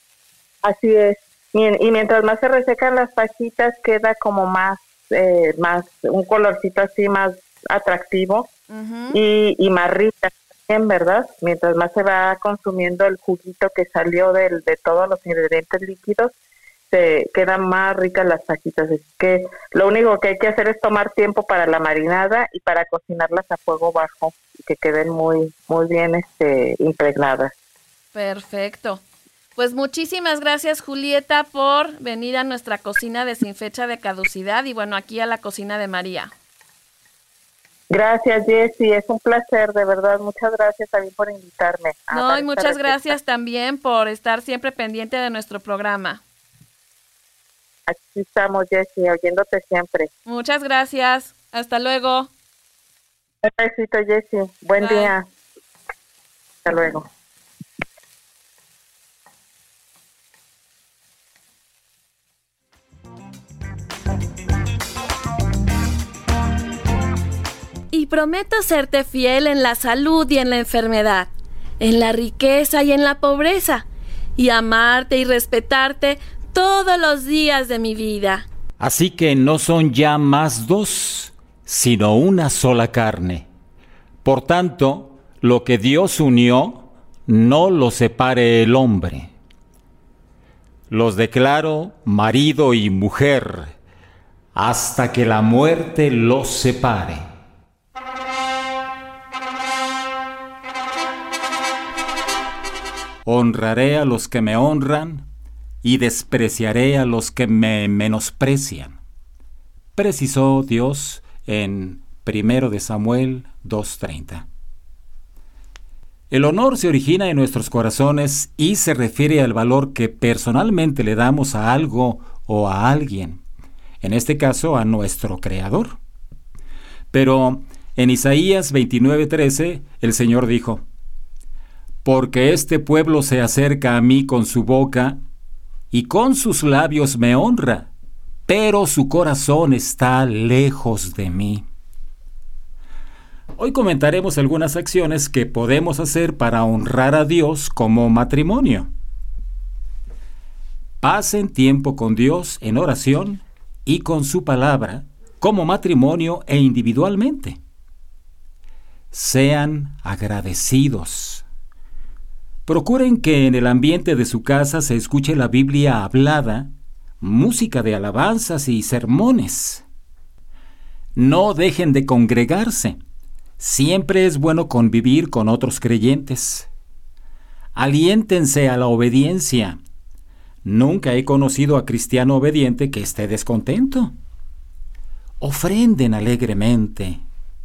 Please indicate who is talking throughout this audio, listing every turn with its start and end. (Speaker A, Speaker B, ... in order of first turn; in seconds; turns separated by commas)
Speaker A: 0.6-8.5, Speaker B: 8.7-9.2, Speaker A: 9.1-16.3, Speaker A: 16.9-27.5, Speaker B: 28.1-29.0, Speaker B: 29.6-36.3, Speaker A: 37.9-43.1, Speaker B: 42.1-46.2, Speaker A: 47.9-50.1, Speaker B: 50.2-52.3, Speaker A: 53.4-55.2, Speaker B: 54.8-55.1, Speaker A: 56.6-57.1, Speaker B: 67.9-73.8, Speaker B: 74.4-78.4, Speaker C: 78.8-83.5, Speaker C: 84.2-89.3, Speaker C: 90.9-93.7, Speaker C: 94.5-97.3, Speaker C: 103.2-105.3, Speaker C: 105.8-109.0, Speaker C: 110.0-114.5, Speaker C: 116.3-123.4, Speaker C: 124.0-126.0, Speaker C: 127.1-130.8, Speaker C: 132.0-135.2, Speaker C: 135.9-137.9, Speaker C: 138.5-141.6, Speaker C: 143.6-148.9, Speaker C: 151.0-157.6, Speaker C: 159.1-161.4, Speaker C: 162.7-169.8, Speaker C: 171.2-173.0, Speaker C: 173.6-176.7, Speaker C: 177.7-179.8, Speaker C: 180.6-184.1, Speaker C: 185.4-187.2